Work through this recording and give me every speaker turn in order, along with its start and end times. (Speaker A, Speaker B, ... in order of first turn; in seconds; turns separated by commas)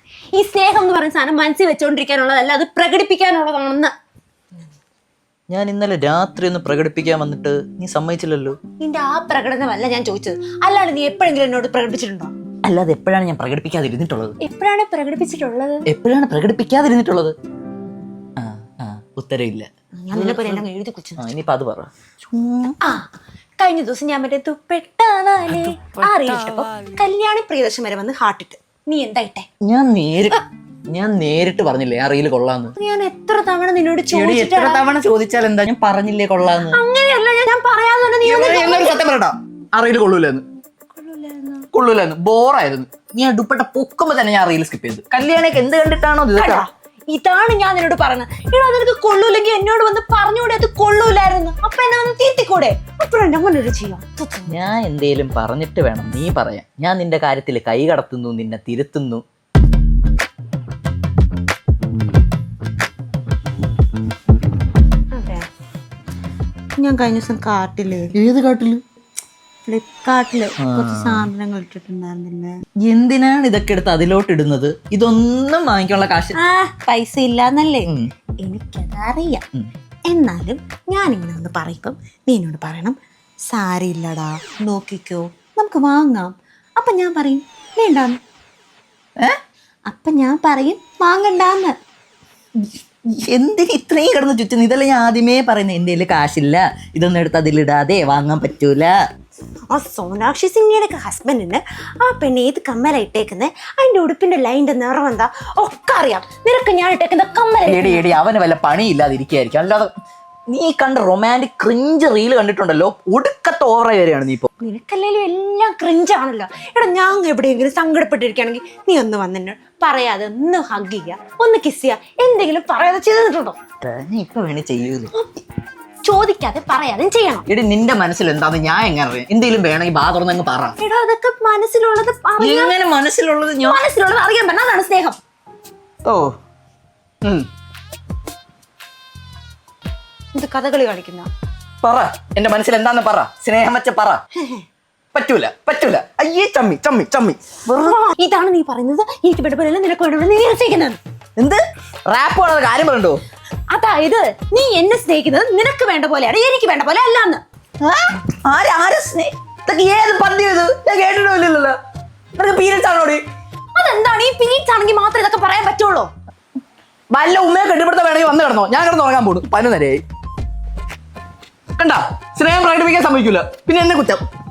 Speaker A: 0.3-3.9, Speaker B: 5.5-8.6, Speaker A: 8.8-12.3, Speaker B: 12.7-14.3, Speaker A: 14.4-15.8, Speaker B: 15.9-17.3, Speaker B: 18.4-20.6, Speaker A: 20.0-21.2, Speaker B: 21.2-22.8, Speaker A: 23.6-29.5, Speaker B: 29.6-32.7, Speaker A: 32.8-34.8, Speaker B: 34.1-36.8, Speaker A: 36.6-39.0, Speaker B: 38.2-40.4, Speaker A: 40.9-41.7, Speaker B: 41.7-46.6, Speaker A: 46.3-54.7, Speaker B: 54.5-59.2, Speaker A: 65.1-65.5, Speaker A: 66.8-68.1, Speaker B: 68.1-68.8, Speaker A: 69.7-72.6, Speaker B: 70.6-71.3, Speaker B: 72.8-76.3, Speaker A: 76.3-77.9, Speaker A: 78.4-79.4, Speaker A: 80.1-83.0, Speaker A: 83.5-88.2, Speaker A: 89.9-91.7, Speaker B: 92.6-98.9, Speaker A: 99.7-108.1, Speaker B: 107.7-109.9, Speaker B: 110.5-114.5, Speaker A: 114.6-123.6, Speaker B: 123.8-125.1, Speaker A: 126.0-127.5, Speaker B: 127.5-130.8, Speaker A: 130.8-132.7, Speaker B: 132.4-133.8, Speaker A: 133.6-135.2, Speaker B: 136.1-136.3, Speaker A: 140.3-141.3, Speaker B: 141.8-144.2, Speaker A: 144.3-144.7, Speaker B: 145.1-147.6, Speaker A: 147.7-151.0, Speaker B: 151.4-153.2, Speaker A: 153.7-157.4, Speaker B: 157.8-161.8, Speaker B: 162.3-163.2, Speaker A: 163.8-166.1, Speaker B: 167.1-170.0, Speaker B: 171.8-174.2